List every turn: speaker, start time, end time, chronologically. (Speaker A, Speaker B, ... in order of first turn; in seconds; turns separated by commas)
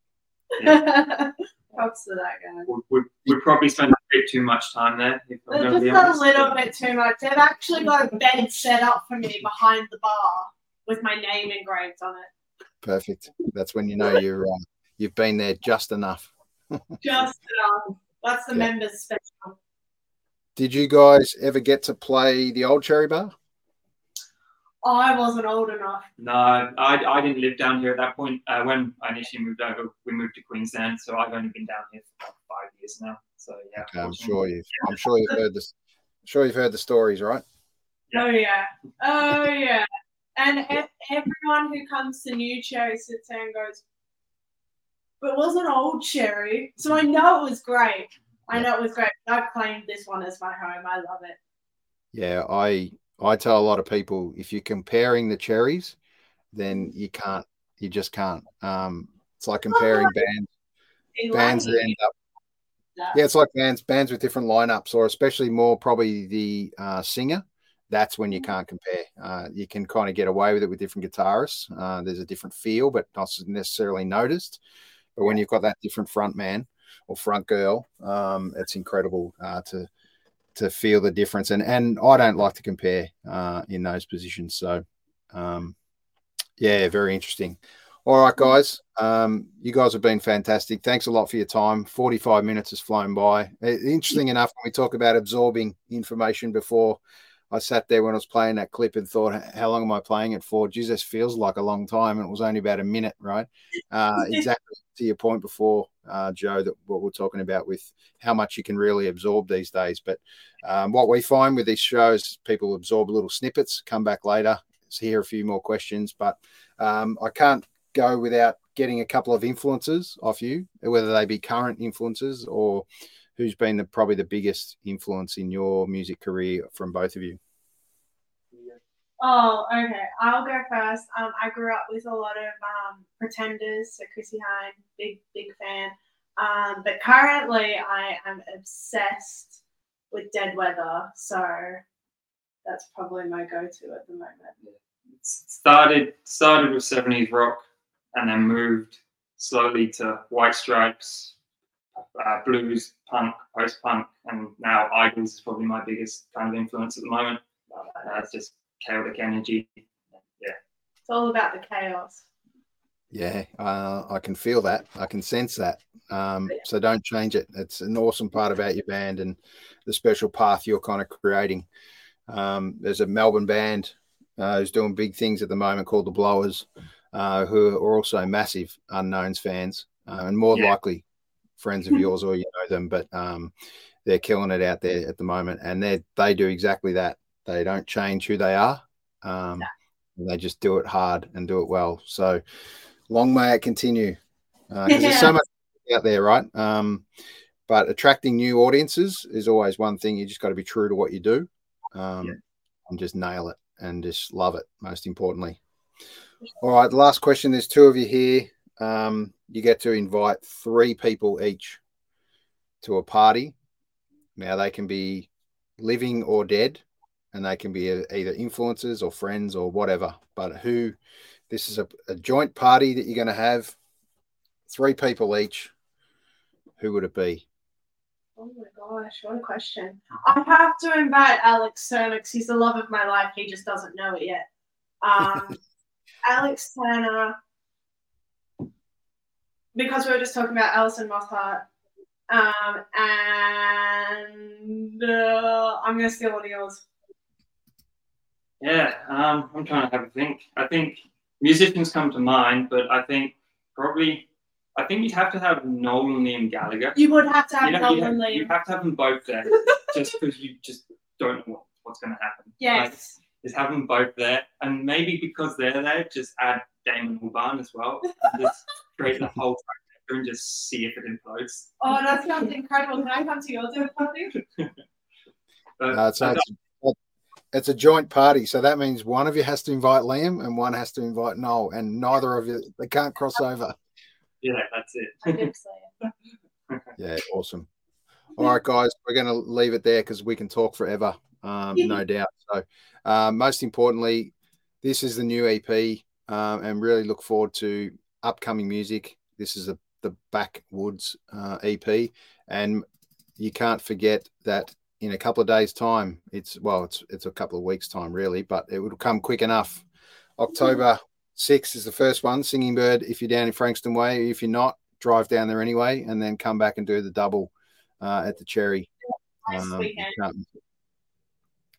Speaker A: 0.6-2.7, Speaker B: 2.7-6.5, Speaker A: 5.5-12.3, Speaker C: 12.8-17.0, Speaker A: 17.0-19.6, Speaker C: 20.6-23.3, Speaker A: 24.8-26.1, Speaker B: 26.2-34.9, Speaker C: 33.8-35.7, Speaker C: 36.2-37.4, Speaker A: 38.1-43.8, Speaker A: 45.2-51.4, Speaker C: 52.1-56.0, Speaker C: 56.5-60.5, Speaker A: 59.7-60.1, Speaker A: 61.1-62.0, Speaker C: 61.3-62.1, Speaker C: 63.1-74.6, Speaker C: 75.2-79.9, Speaker C: 80.5-85.7, Speaker C: 86.6-97.0, Speaker C: 97.5-127.4, Speaker B: 128.5-128.8, Speaker A: 129.2-139.6, Speaker A: 140.1-141.8, Speaker A: 142.6-144.5, Speaker B: 144.6-151.3, Speaker B: 152.1-157.4, Speaker A: 157.7-158.2, Speaker B: 158.0-159.8, Speaker A: 161.1-162.2, Speaker C: 163.1-171.7, Speaker C: 172.3-181.0, Speaker C: 181.6-183.5, Speaker C: 184.0-192.4, Speaker C: 193.1-194.2, Speaker C: 194.7-197.0, Speaker A: 194.9-195.3, Speaker C: 197.7-205.6, Speaker C: 206.6-211.8, Speaker C: 212.8-213.6, Speaker C: 214.3-215.3, Speaker C: 215.8-220.9, Speaker C: 221.5-223.8, Speaker C: 224.7-225.7, Speaker C: 226.8-227.4, Speaker A: 228.4-234.4, Speaker A: 235.0-235.6, Speaker A: 236.2-237.3, Speaker A: 239.7-241.6, Speaker A: 242.3-246.8, Speaker B: 248.6-257.0, Speaker A: 256.9-258.5, Speaker B: 257.6-271.7, Speaker A: 262.6-263.2, Speaker A: 271.8-274.3, Speaker B: 275.8-276.4, Speaker C: 275.9-276.9, Speaker C: 277.5-283.8, Speaker B: 284.4-285.5, Speaker A: 285.2-285.9, Speaker C: 287.0-287.7, Speaker C: 288.4-302.8, Speaker C: 303.4-309.8, Speaker C: 310.4-318.9, Speaker A: 319.4-320.2, Speaker C: 319.5-320.5